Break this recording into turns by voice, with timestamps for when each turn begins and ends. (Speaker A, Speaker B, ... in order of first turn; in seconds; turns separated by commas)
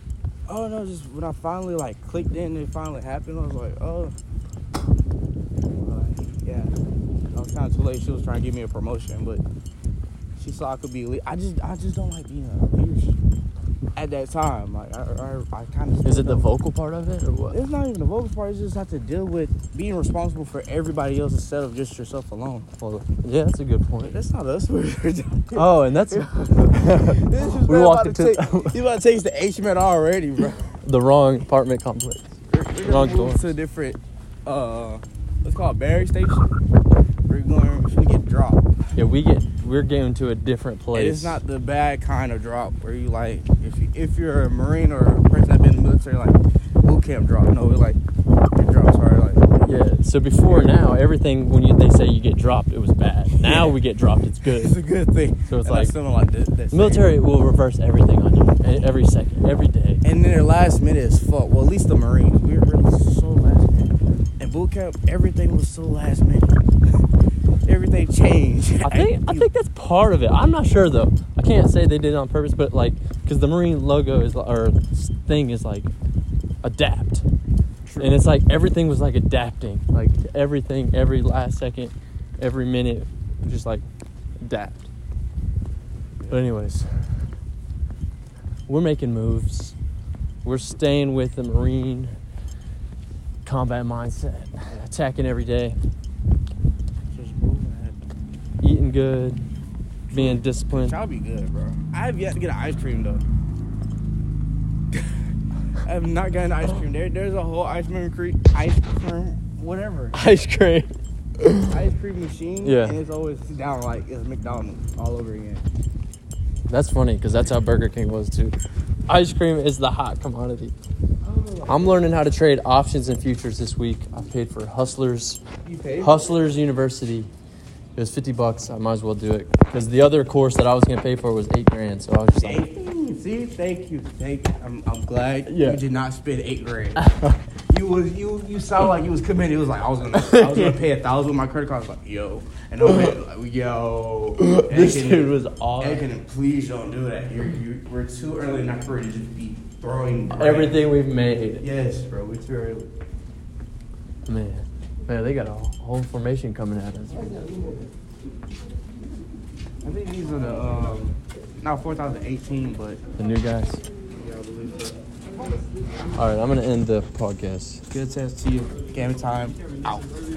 Speaker A: 0.5-4.1, Speaker A: 5.8-6.7, Speaker A: 7.3-9.4, Speaker A: 10.4-13.2, Speaker A: 13.9-16.5, Speaker B: 16.0-17.6, Speaker A: 17.5-22.7, Speaker B: 22.8-24.2, Speaker A: 24.0-30.7, Speaker B: 25.5-28.8, Speaker B: 30.8-33.5, Speaker A: 32.5-36.5, Speaker A: 37.3-38.6, Speaker B: 38.9-41.4, Speaker A: 40.9-48.0, Speaker A: 48.5-49.8, Speaker B: 49.6-54.8, Speaker A: 53.3-53.8, Speaker A: 54.5-57.1, Speaker B: 55.5-55.9, Speaker B: 56.7-60.0, Speaker A: 60.0-66.6, Speaker A: 67.6-69.5, Speaker B: 68.8-75.9, Speaker B: 76.6-77.2, Speaker A: 77.8-78.1, Speaker B: 78.0-83.8, Speaker B: 84.4-84.9, Speaker B: 86.3-86.9, Speaker B: 88.7-89.8, Speaker B: 90.4-92.1, Speaker B: 93.4-95.8, Speaker A: 97.1-98.0, Speaker B: 98.6-99.5, Speaker A: 100.1-103.2, Speaker B: 100.1-101.0, Speaker A: 105.8-110.2, Speaker B: 110.1-111.7, Speaker A: 111.7-115.6, Speaker B: 112.6-113.0, Speaker B: 116.7-118.5, Speaker B: 119.1-120.8, Speaker A: 121.2-122.0, Speaker B: 121.7-125.4, Speaker A: 125.6-126.3, Speaker B: 126.0-127.3, Speaker B: 128.0-132.6, Speaker A: 132.4-137.0, Speaker B: 135.5-135.8, Speaker B: 137.0-137.4, Speaker A: 137.7-150.8, Speaker B: 140.1-140.8, Speaker B: 142.8-143.1, Speaker B: 144.4-146.1, Speaker B: 150.3-151.7, Speaker A: 151.6-152.9, Speaker B: 154.3-157.4, Speaker A: 159.8-163.0, Speaker B: 163.2-163.8, Speaker A: 164.2-164.9, Speaker B: 166.2-167.8, Speaker A: 167.9-170.1